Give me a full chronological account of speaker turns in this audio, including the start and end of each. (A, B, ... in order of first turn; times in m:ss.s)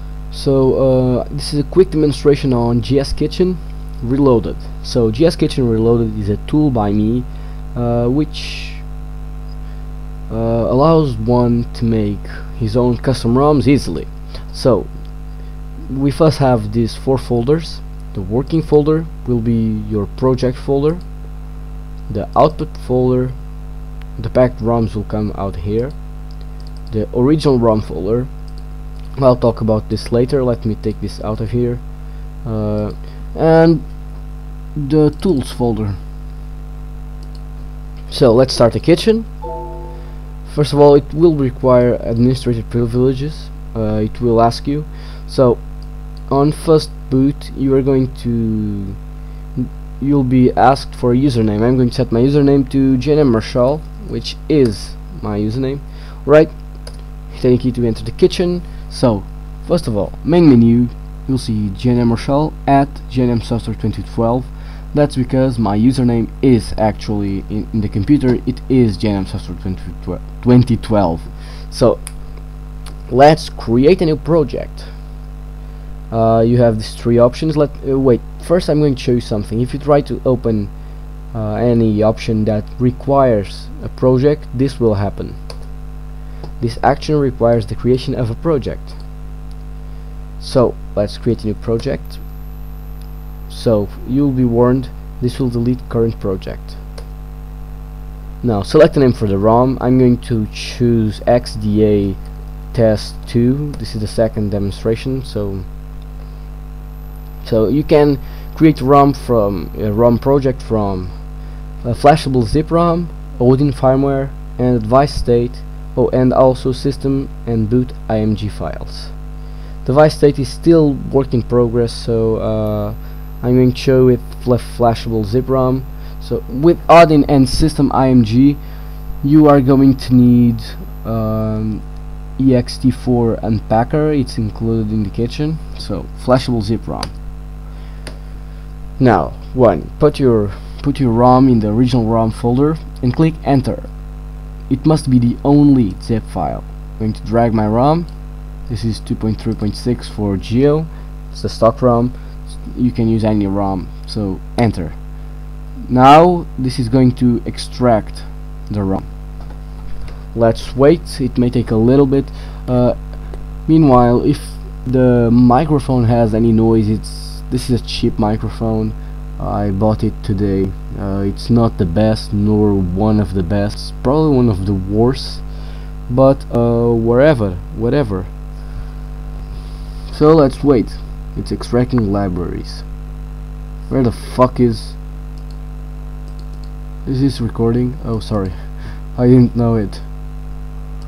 0:00.3-0:08.9 A
0:10.3-0:15.3 A
0:15.8-0:21.2 A
0:22.1-0:23.5 A
0:24.1-0:28.4 A
0:29.2-0:36.0 A
0:38.1-0:39.3 A
0:40.4-0:49.0 A
0:49.5-1:15.1 A
1:16.1-1:25.4 A
1:26.6-1:29.0 A
1:30.4-1:32.2 A
1:33.5-1:36.8 A
1:38.4-1:45.7 A
1:47.4-2:08.6 A
2:09.2-2:17.1 A
2:19.0-2:24.2 A
2:24.7-2:35.2 A
2:35.8-2:39.1 A
2:40.3-2:58.3 A
3:00.1-3:02.9 A
3:03.9-3:05.0 A
3:07.0-3:10.1 A